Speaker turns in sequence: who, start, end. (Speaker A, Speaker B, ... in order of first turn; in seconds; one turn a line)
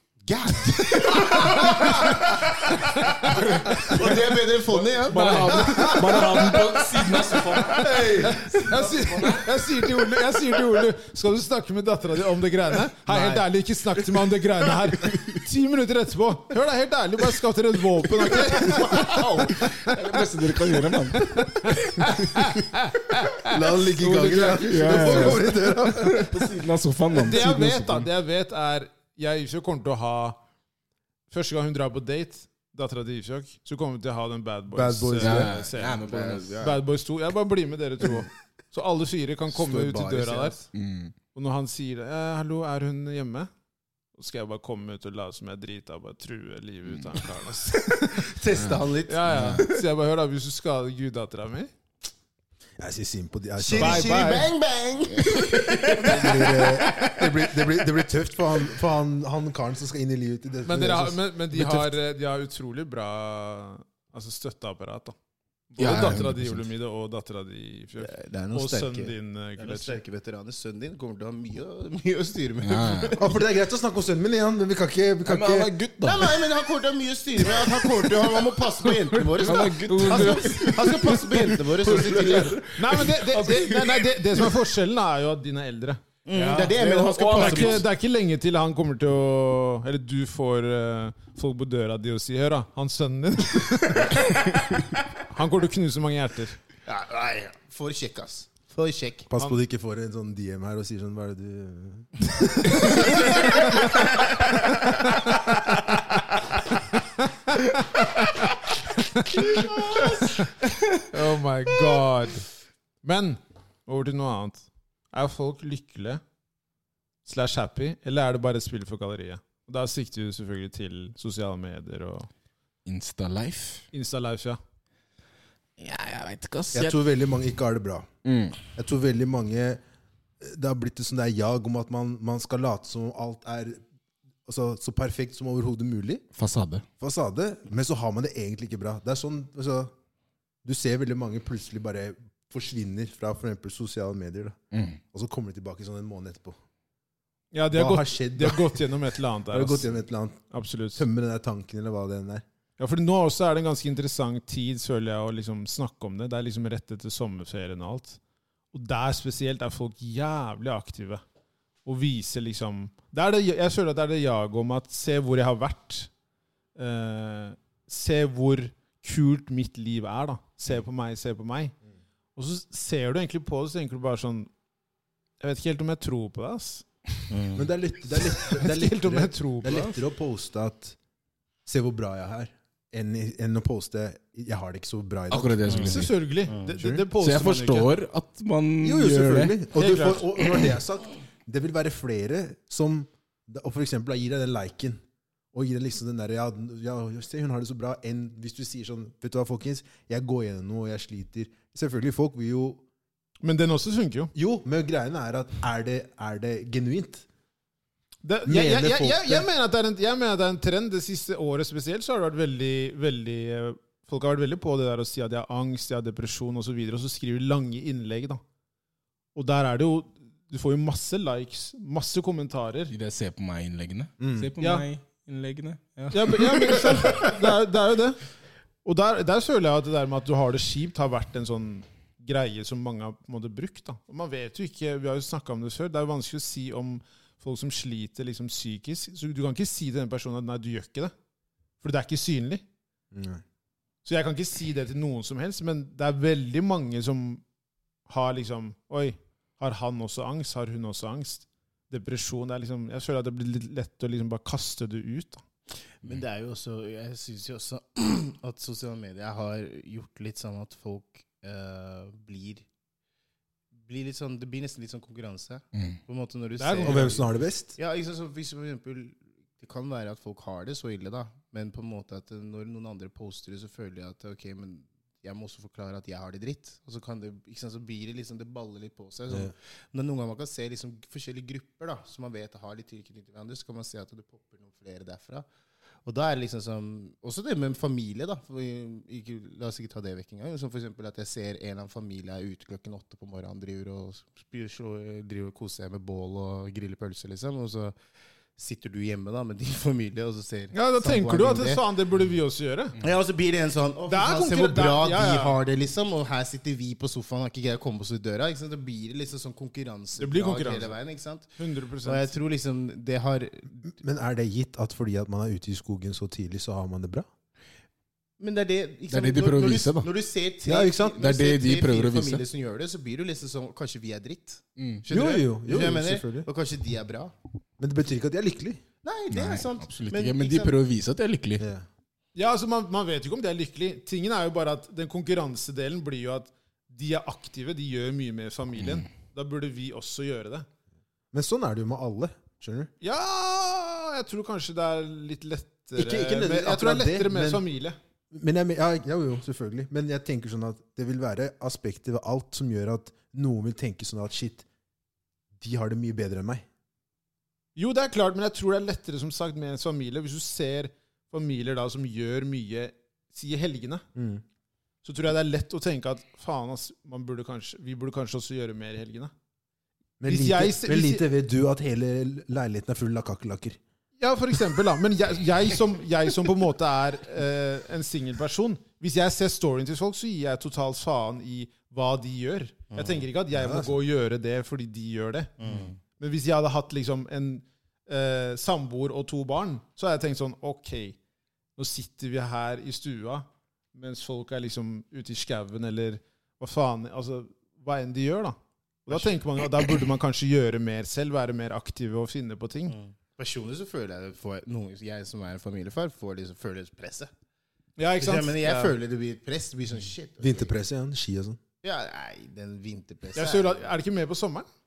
Speaker A: 0.3-6.6
Speaker B: 1.3-2.1
Speaker B: 3.0-3.4
Speaker C: 3.3-9.5
Speaker B: 5.1-6.7
Speaker D: 5.7-6.3
Speaker B: 7.6-19.8
Speaker D: 7.8-8.5
Speaker C: 18.3-22.4
Speaker A: 18.4-19.9
Speaker B: 21.2-25.5
Speaker D: 23.4-26.5
Speaker C: 24.3-28.1
Speaker B: 27.1-30.4
Speaker B: 31.3-36.1
Speaker D: 34.7-35.6
Speaker C: 35.2-36.6
Speaker A: 36.0-36.8
Speaker B: 36.6-40.6
Speaker A: 39.5-40.7
Speaker C: 40.7-41.1
Speaker B: 41.4-43.5
Speaker B: 44.1-48.3
Speaker A: 47.9-49.8
Speaker B: 49.1-51.7
Speaker C: 49.3-49.6
Speaker D: 52.8-54.3
Speaker A: 53.6-57.3
Speaker B: 53.8-54.5
Speaker D: 55.9-62.0
Speaker B: 60.7-65.1
Speaker B: 65.7-70.0
Speaker C: 65.8-66.7
Speaker A: 68.0-73.4
Speaker C: 72.6-73.2
Speaker D: 73.2-75.7
Speaker C: 75.3-76.4
Speaker A: 76.0-82.6
Speaker B: 79.3-80.7
Speaker C: 79.4-84.5
Speaker B: 81.8-86.8
Speaker A: 86.2-87.8
Speaker C: 86.3-87.8
Speaker B: 87.3-94.4
Speaker B: 95.3-96.6
Speaker A: 96.9-99.3
Speaker D: 99.3-103.3
Speaker B: 107.5-110.2
Speaker C: 109.4-111.0
Speaker B: 111.1-112.5
Speaker B: 113.0-116.2
Speaker B: 117.2-122.3
Speaker C: 122.8-123.9
Speaker B: 123.9-124.6
Speaker C: 125.8-127.0
Speaker D: 126.7-128.1
Speaker C: 128.2-128.6
Speaker D: 128.7-129.8
Speaker D: 130.4-133.8
Speaker D: 134.5-136.3
Speaker C: 136.3-136.8
Speaker D: 137.0-139.9
Speaker D: 140.7-146.6
Speaker C: 144.7-145.0
Speaker B: 147.5-149.9
Speaker D: 147.7-148.9
Speaker D: 149.5-150.4
Speaker B: 150.5-151.0
Speaker D: 151.0-152.4
Speaker B: 152.8-158.2
Speaker B: 158.7-161.2
Speaker B: 161.8-166.1
Speaker B: 166.8-171.7
Speaker B: 172.4-174.5
Speaker B: 175.4-176.9
Speaker A: 177.3-177.7
Speaker D: 177.6-181.0
Speaker B: 178.2-180.0
Speaker D: 181.7-186.1
Speaker C: 185.3-186.1
Speaker B: 185.8-187.9
Speaker D: 186.7-187.1
Speaker C: 187.2-189.6
Speaker D: 188.8-195.0
Speaker B: 189.8-190.3
Speaker D: 195.5-202.8
Speaker B: 203.4-204.3
Speaker D: 204.3-207.3
Speaker B: 208.2-218.4
Speaker D: 208.5-209.5
Speaker B: 219.3-222.9
Speaker C: 222.9-226.9
Speaker D: 224.2-224.5
Speaker B: 224.6-224.8
Speaker B: 226.1-228.2
Speaker B: 228.8-241.1
Speaker B: 241.8-242.6
Speaker D: 243.1-243.4
Speaker B: 244.1-247.4
Speaker B: 248.1-255.4
Speaker A: 256.0-262.7
Speaker A: 263.9-285.5
Speaker B: 266.6-267.1
Speaker D: 266.8-267.8
Speaker A: 286.1-297.9
Speaker A: 298.6-301.8
Speaker B: 300.7-303.0
Speaker A: 303.0-311.5
Speaker B: 304.1-305.6
Speaker B: 310.2-311.0
Speaker B: 311.6-312.3
Speaker A: 312.0-313.8
Speaker D: 313.8-317.3
Speaker A: 318.4-327.3
Speaker C: 319.1-320.1
Speaker D: 320.6-321.2
Speaker C: 321.2-322.4
Speaker C: 324.8-325.0
Speaker D: 325.1-326.5
Speaker D: 327.8-328.8
Speaker A: 329.0-330.8
Speaker C: 329.3-331.6
Speaker D: 331.6-331.9
Speaker B: 332.4-340.7
Speaker C: 338.8-339.1
Speaker D: 341.3-342.9
Speaker B: 343.0-348.0
Speaker D: 346.0-347.6
Speaker D: 348.3-354.6
Speaker D: 355.6-356.6
Speaker B: 357.8-364.0
Speaker D: 364.1-364.4
Speaker B: 365.0-369.3
Speaker D: 370.2-373.8
Speaker B: 370.3-371.2
Speaker B: 374.2-391.2
Speaker A: 382.9-383.2
Speaker D: 383.5-383.9
Speaker A: 385.6-386.0
Speaker B: 391.8-398.6
Speaker B: 399.1-403.0
Speaker A: 402.9-407.3
Speaker B: 408.0-408.9
Speaker A: 408.2-410.7
Speaker D: 410.4-411.6
Speaker A: 411.8-413.9
Speaker B: 413.4-414.7